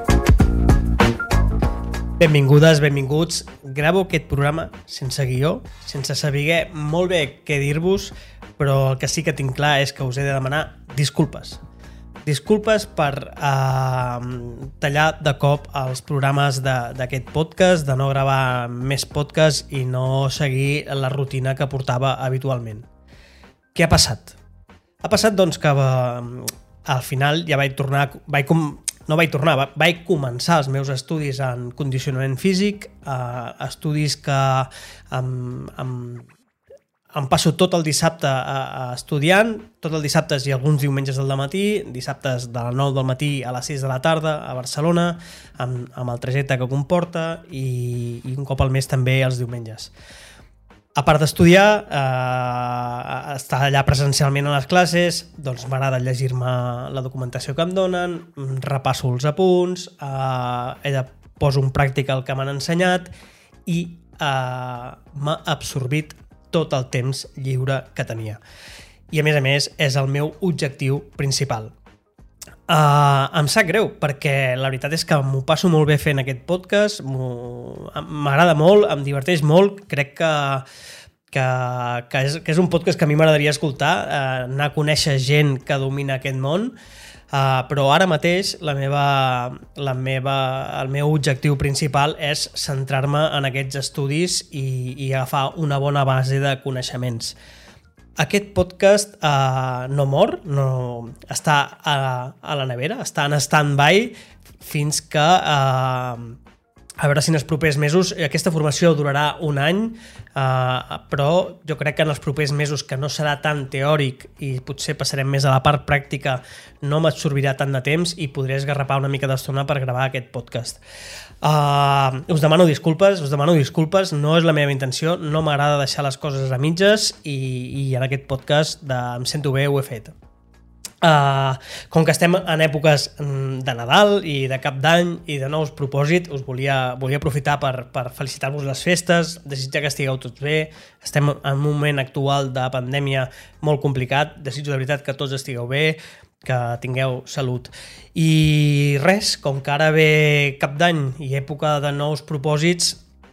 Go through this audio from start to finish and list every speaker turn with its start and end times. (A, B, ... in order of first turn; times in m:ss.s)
0:02.2-0:11.6 A
0:12.2-0:22.9 A
0:23.8-0:24.4 A
0:25.0-0:36.3 A
0:37.1-0:49.9 A
0:51.0-1:03.1 A
1:03.7-1:08.4 A
1:09.1-1:11.7 A
1:12.7-1:20.6 A
1:21.3-1:26.7 A
1:27.3-1:37.4 A
1:38.2-1:46.4 A
1:47.0-2:00.8 A
2:01.4-2:10.1 A
2:11.0-2:33.0 A